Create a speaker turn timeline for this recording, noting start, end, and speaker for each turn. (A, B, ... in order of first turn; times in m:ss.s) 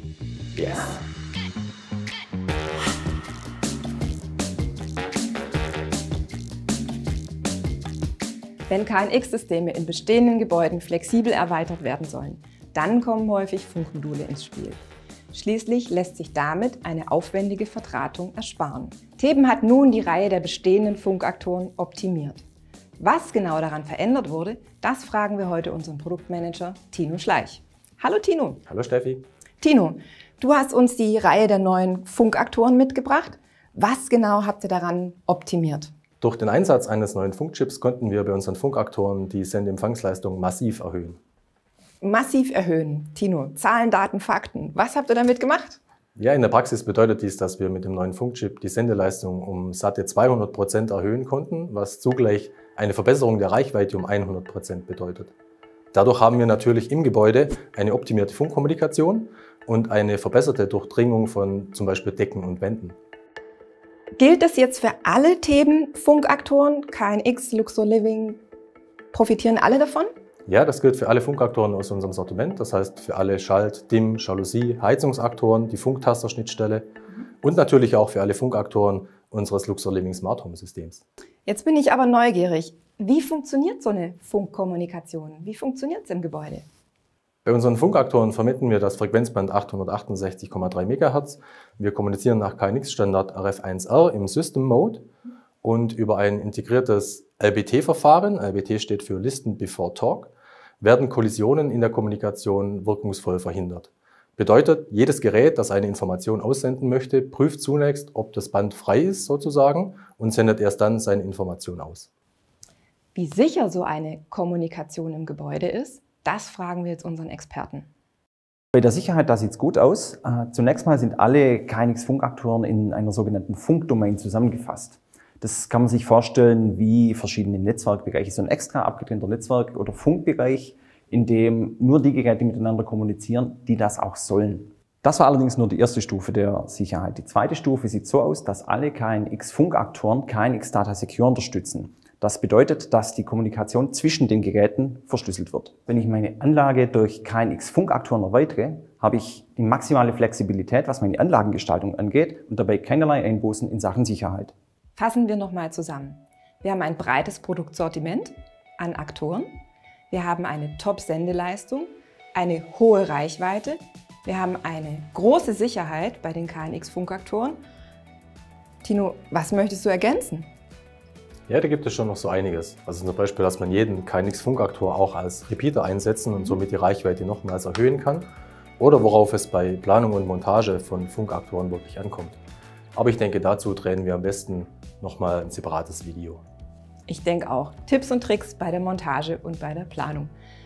0:00.6-0:00.9 A
0:08.7-0:14.8 A
0:15.3-0:22.4 A
0:23.0-0:28.6 A
0:28.7-0:29.2 B
0:29.6-0:35.9 A
0:36.2-0:41.2 B
0:42.0-0:45.8 A
0:46.2-0:55.3 B
0:55.9-1:03.0 B
1:04.2-1:08.4 A
1:09.1-1:10.1 A
1:10.5-1:16.9 B
1:17.4-1:21.0 B
1:21.5-1:26.7 A
1:27.4-1:35.1 B
1:35.6-1:52.1 B
1:53.2-1:57.9 A
1:58.7-2:34.5 C
2:35.0-2:39.6 A
2:40.1-2:47.6 A
2:48.8-2:50.5 A
2:51.5-3:02.4 B
3:03.0-3:06.4 B
3:07.1-3:10.3 A